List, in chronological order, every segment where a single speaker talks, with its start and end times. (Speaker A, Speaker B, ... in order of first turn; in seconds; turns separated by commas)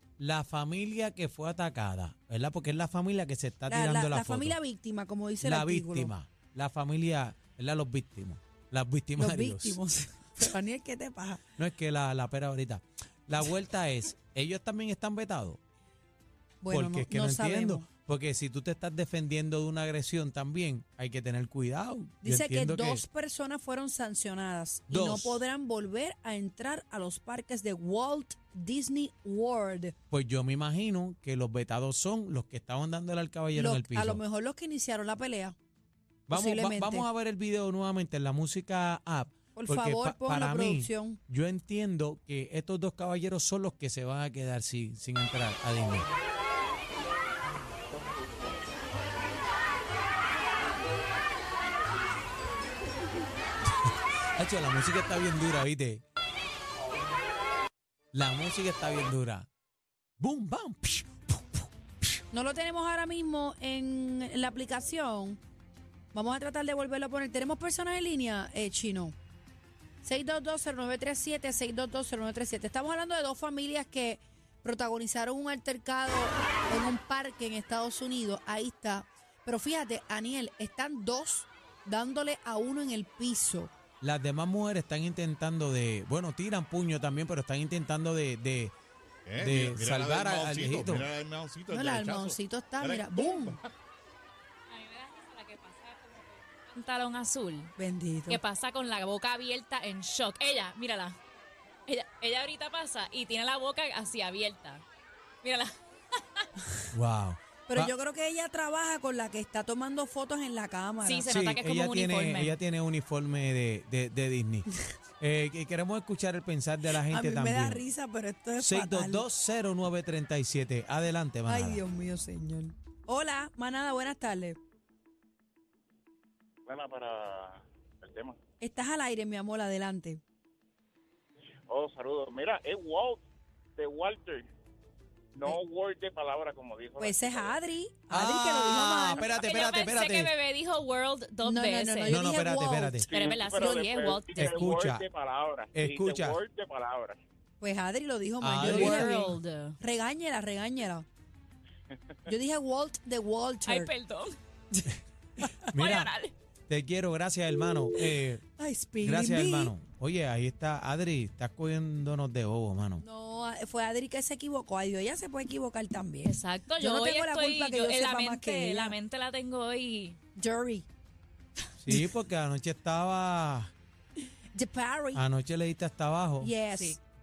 Speaker A: 0.2-4.6, Speaker B: 3.7-6.1, Speaker A: 5.4-9.8, Speaker B: 9.2-11.4, Speaker A: 11.6-15.6, Speaker B: 16.6-17.9, Speaker A: 16.7-23.0, Speaker B: 22.2-29.9, Speaker A: 24.9-25.4, Speaker A: 30.1-34.2, Speaker B: 33.5-35.5, Speaker A: 36.3-46.1, Speaker B: 36.3-37.1, Speaker B: 39.6-41.2, Speaker A: 53.9-56.0, Speaker A: 58.1-59.5, Speaker A: 60.2-62.1, Speaker B: 62.3-65.4, Speaker B: 66.1-69.2, Speaker B: 70.0-83.7, Speaker A: 84.0-88.7, Speaker C: 89.3-93.7, Speaker A: 89.4-91.1, Speaker B: 91.7-93.6, Speaker D: 94.7-97.8, Speaker B: 97.8-98.4, Speaker D: 98.3-101.2, Speaker D: 101.9-104.8, Speaker D: 105.4-105.7, Speaker A: 106.9-107.9, Speaker B: 107.7-111.3, Speaker D: 111.0-112.6, Speaker A: 111.3-114.7, Speaker A: 115.2-117.8, Speaker B: 116.9-119.2, Speaker A: 118.6-121.8, Speaker B: 121.5-124.6, Speaker E: 126.7-128.4, Speaker B: 128.6-130.2, Speaker E: 131.7-133.2, Speaker E: 133.8-134.5, Speaker E: 135.3-137.6, Speaker B: 137.0-139.3, Speaker A: 138.1-140.3, Speaker E: 139.1-139.4, Speaker D: 139.4-142.3, Speaker B: 141.4-144.4, Speaker A: 142.1-143.1, Speaker E: 143.1-147.2, Speaker D: 143.1-144.5, Speaker A: 144.3-145.1, Speaker A: 145.7-146.4, Speaker B: 147.6-151.1, Speaker A: 148.4-149.3, Speaker D: 148.6-149.8, Speaker B: 152.3-153.9, Speaker D: 153.7-154.4, Speaker B: 155.4-155.7, Speaker A: 155.7-156.1, Speaker D: 155.8-156.3, Speaker A: 156.7-158.4, Speaker B: 158.6-159.7, Speaker A: 159.0-163.0, Speaker B: 163.0-169.0, Speaker D: 166.2-170.2, Speaker B: 170.4-170.9, Speaker A: 171.8-173.7, Speaker B: 174.5-175.2, Speaker A: 175.1-176.6, Speaker B: 176.4-177.0, Speaker D: 176.7-177.0